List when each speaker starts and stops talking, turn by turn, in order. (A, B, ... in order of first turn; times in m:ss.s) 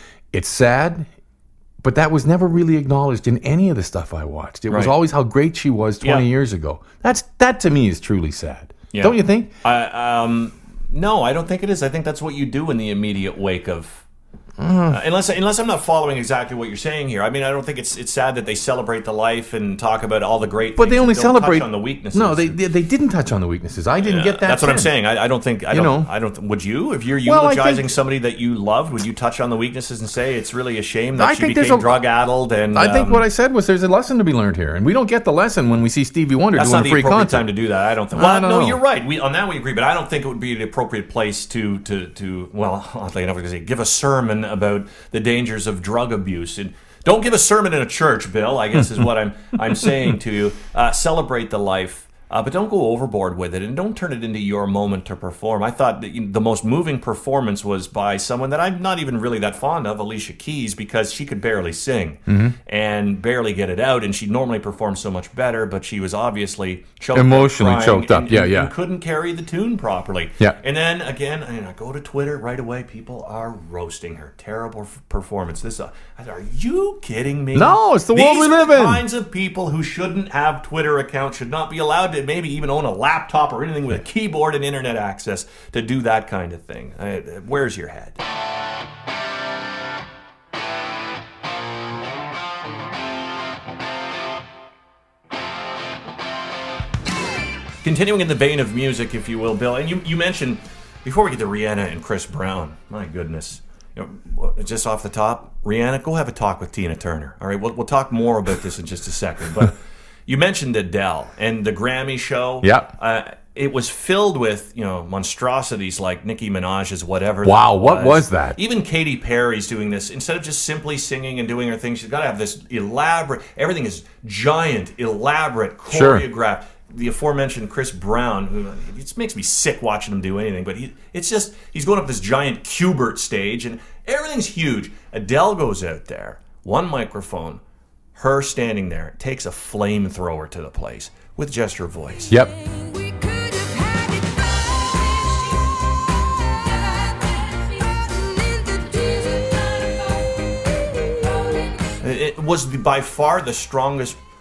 0:00.3-0:01.1 A
0:01.8-0:09.5 A
0:04.7-0:04.9 B
0:06.0-0:06.2 B
0:08.9-0:14.0 B
0:14.6-0:15.0 A
0:14.9-0:22.6 B
0:20.8-0:24.9 A
0:24.0-0:33.2 B
0:25.7-0:26.1 A
0:27.2-0:27.9 A
0:31.2-0:31.9 A
0:32.7-0:37.5 A
0:36.6-1:28.2 B
0:38.1-0:38.8 A
0:48.8-0:49.0 A
1:02.3-1:02.6 A
1:07.1-1:08.7 A
1:17.5-1:19.0 A
1:37.8-2:17.6 B
1:52.6-1:52.9 A
1:57.4-1:58.6 A
2:05.9-2:06.2 A
2:18.2-2:22.3 B
2:22.5-2:31.7 C
2:32.0-2:34.2 B